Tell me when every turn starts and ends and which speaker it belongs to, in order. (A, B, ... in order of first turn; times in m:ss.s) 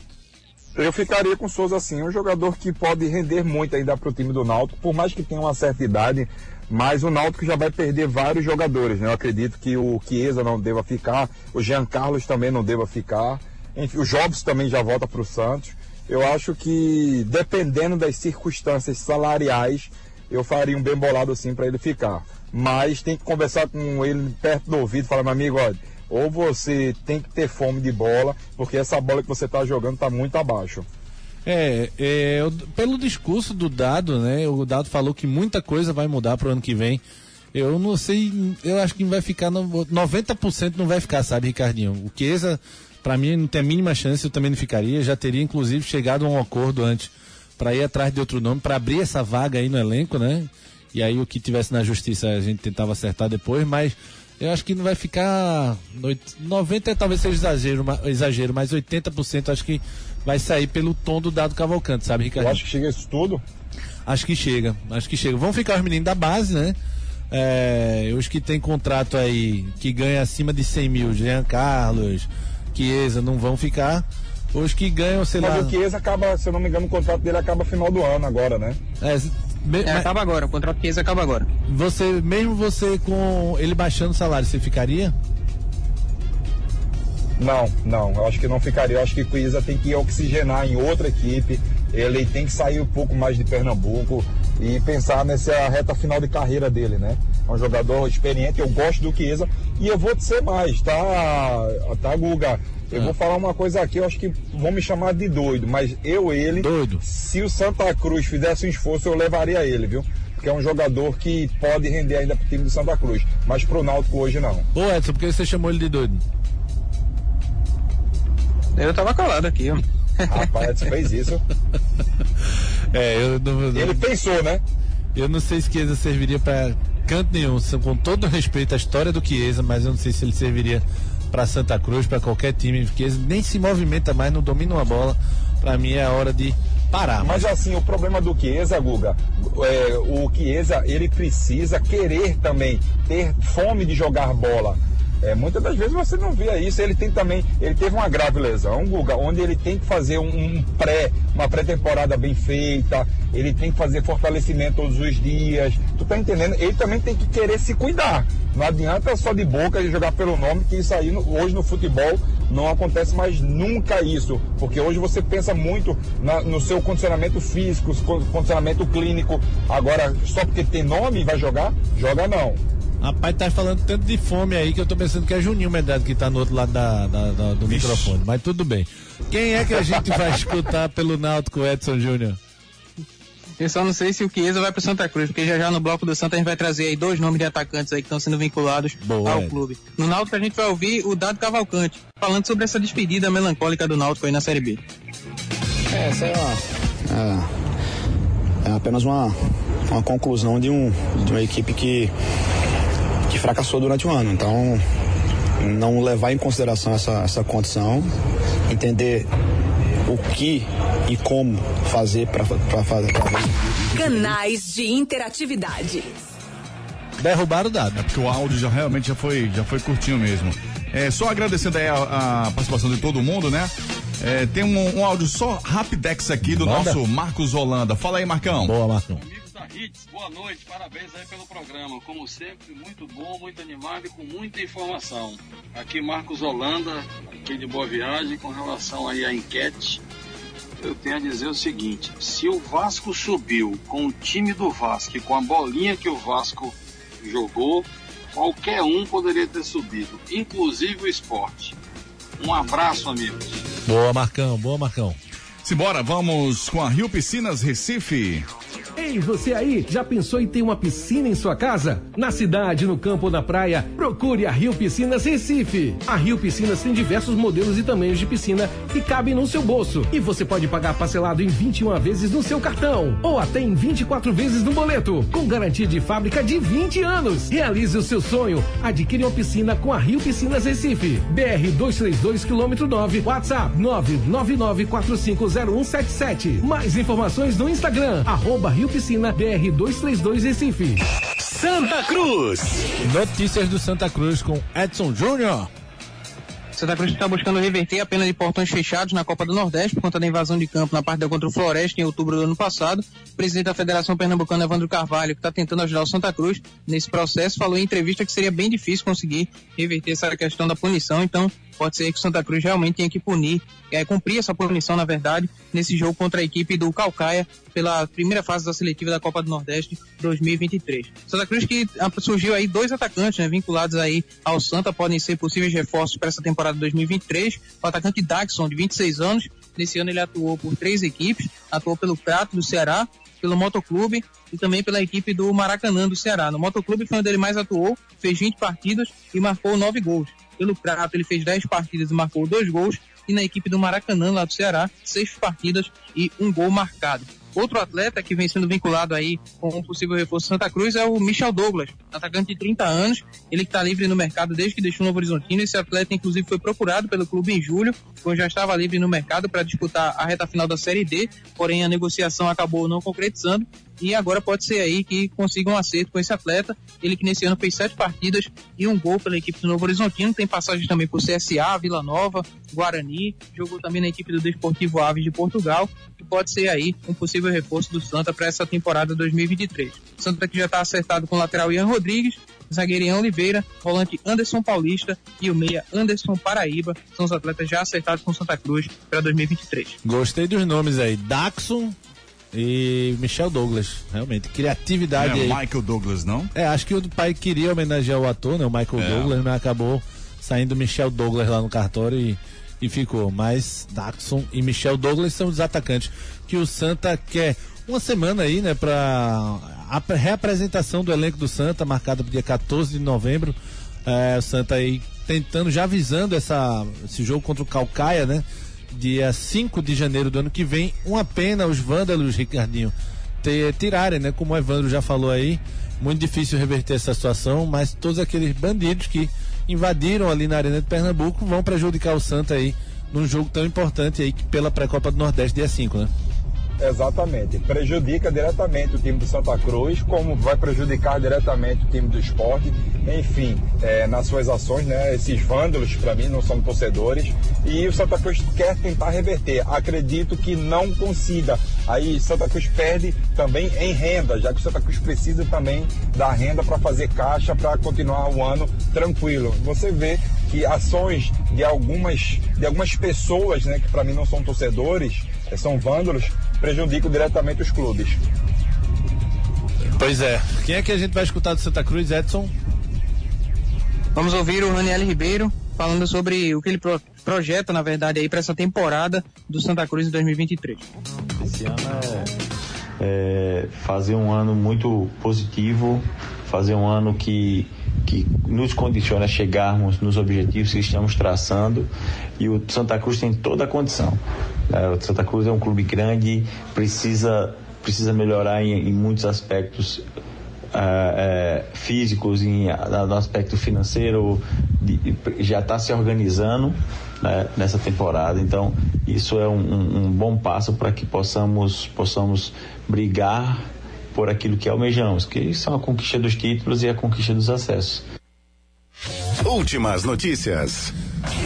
0:00.8-0:30.8 A
0:31.4-0:37.0 B
0:37.5-1:02.6 B
1:02.4-1:03.4 A
1:04.1-1:06.8 B
1:07.3-1:15.7 B
1:15.4-1:18.8 A
1:19.0-1:20.1 B
1:19.8-1:21.5 C
1:21.7-1:25.1 B
1:27.4-1:54.7 A
1:46.6-1:47.0 B
1:54.7-1:56.2 B
1:58.8-2:00.6 C
2:00.3-2:01.4 A
2:02.9-2:04.0 B
2:03.7-2:04.6 A
2:05.1-2:17.5 B
2:17.2-2:52.6 A
2:53.0-3:02.4 B
2:57.7-2:58.1 D
3:03.6-3:14.8 C
3:09.0-3:09.6 B
3:15.9-3:17.5 E
3:18.6-3:19.4 E
3:19.9-3:22.1 E
3:23.3-3:24.8 E
3:25.6-3:28.1 E
3:28.7-3:29.3 E
3:30.0-3:33.8 E
3:33.9-3:36.1 F
3:37.2-3:38.0 B
3:38.0-3:48.7 D
3:46.5-3:47.0 B
3:48.6-3:49.2 B
3:49.1-4:00.0 G
4:00.8-4:11.8 G
4:12.4-4:13.6 G
4:13.8-4:15.2 B
4:15.6-4:18.5 D
4:19.0-4:51.0 H
4:51.4-4:52.9 I
4:53.0-4:55.7 B
4:56.7-6:30.0 C
6:30.0-6:32.0 B
6:32.5-6:35.6 B
6:35.2-6:36.5 D
6:36.5-7:16.1 B
6:39.0-6:39.3 D
7:16.8-7:48.2 A
7:50.0-7:52.5 B
7:54.1-8:00.8 C
8:01.4-8:02.4 J
8:03.0-8:20.0 J
8:20.7-8:38.0 J
8:39.4-8:40.9 I